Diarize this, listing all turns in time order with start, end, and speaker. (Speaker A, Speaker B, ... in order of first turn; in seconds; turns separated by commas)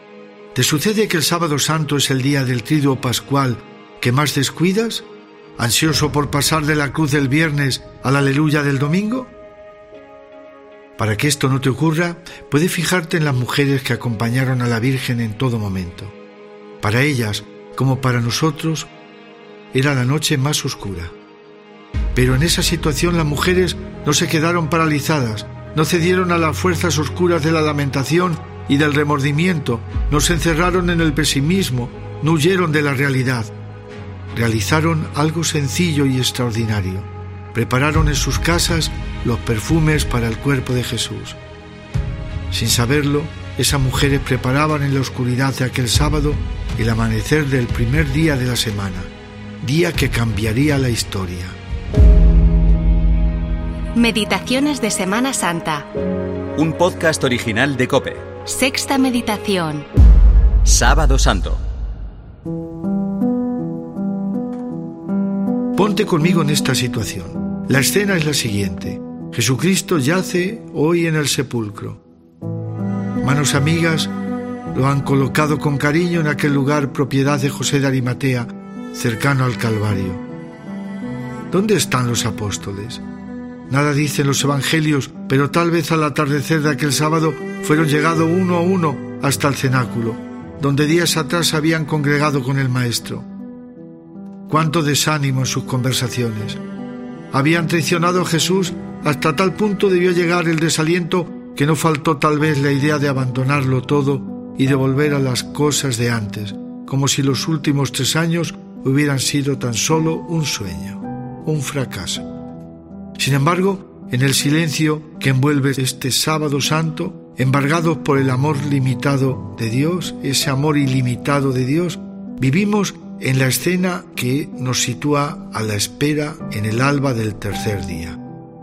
Speaker A: 0.5-5.0, Speaker A: 5.6-9.3, Speaker A: 11.0-16.1, Speaker A: 16.8-18.9, Speaker A: 19.7-21.1, Speaker A: 22.1-33.5, Speaker A: 34.3-41.4, Speaker A: 42.5-51.6, Speaker B: 53.9-55.9, Speaker C: 56.5-58.3, Speaker B: 58.5-59.9, Speaker C: 60.6-61.6, Speaker A: 65.8-72.0, Speaker A: 73.2-74.1, Speaker A: 74.7-80.2, Speaker A: 81.5-83.0, Speaker A: 83.7-93.3, Speaker A: 94.5-96.6, Speaker A: 97.3-112.2, Speaker A: 113.2-128.2